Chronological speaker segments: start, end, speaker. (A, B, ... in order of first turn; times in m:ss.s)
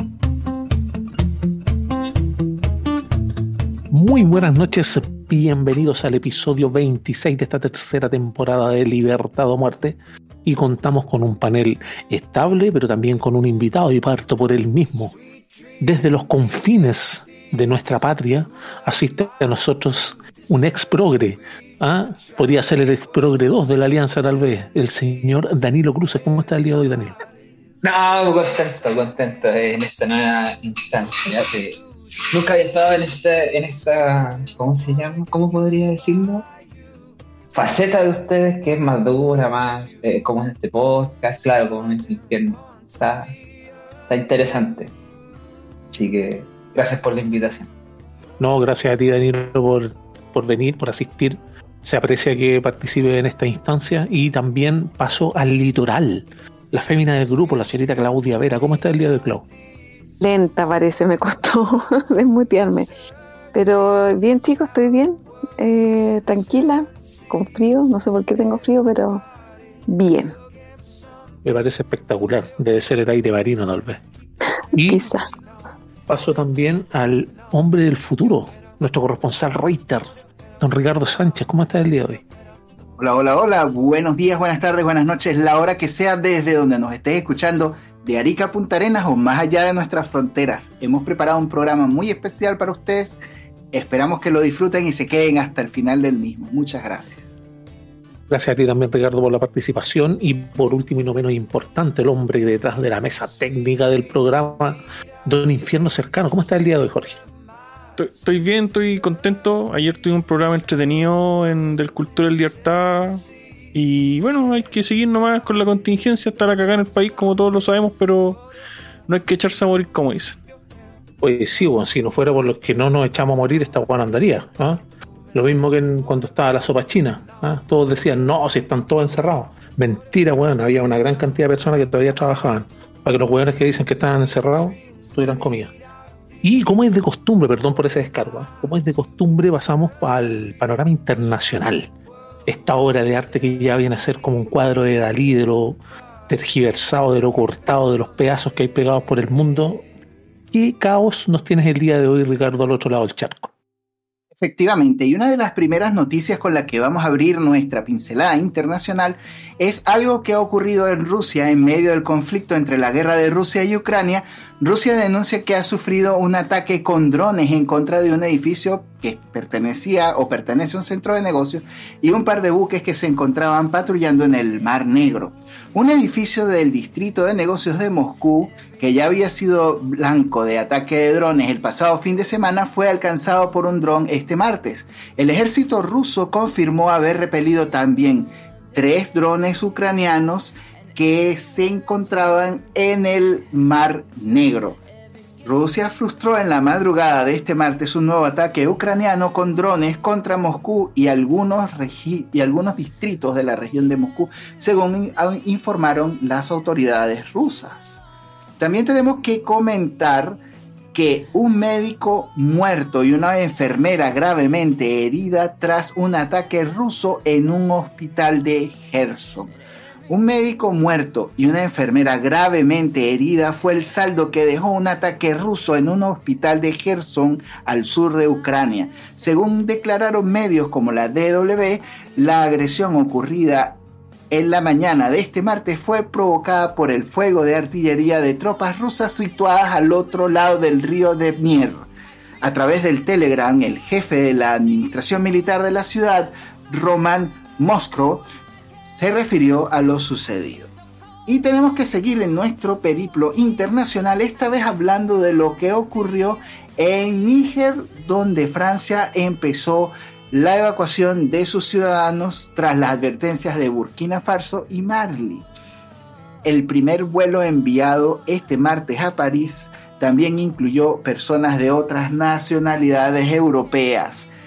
0:03.9-0:15.2 A
0:15.8-0:27.2 A
0:27.8-0:31.8 B
0:32.3-0:36.4 B
0:37.5-0:43.3 B
0:44.1-0:44.9 B
0:45.9-0:47.7 B
0:48.4-0:59.5 A
1:00.2-1:02.9 C
1:03.5-1:09.2 C
1:09.9-1:10.3 C
1:11.4-1:14.0 A
1:14.7-1:15.0 A
1:14.8-1:15.2 C
1:16.1-1:22.2 A
1:23.0-1:33.2 D
1:33.7-1:37.3 D
1:38.3-1:47.2 A
1:48.0-1:53.2 E
1:53.7-1:58.4 E
1:59.1-2:00.4 E
2:01.2-2:15.7 A
2:16.4-2:21.9 A
2:22.4-2:29.8 A
2:30.5-2:33.5 A
2:34.4-3:14.8 D
3:15.4-3:28.0 D
3:28.6-3:30.4 D
3:30.9-3:39.5 D
3:40.1-3:53.8 D
3:54.3-4:01.9 D
4:02.4-4:08.2 D
4:08.8-4:10.7 D
4:11.2-4:25.4 D
4:26.4-4:34.3 D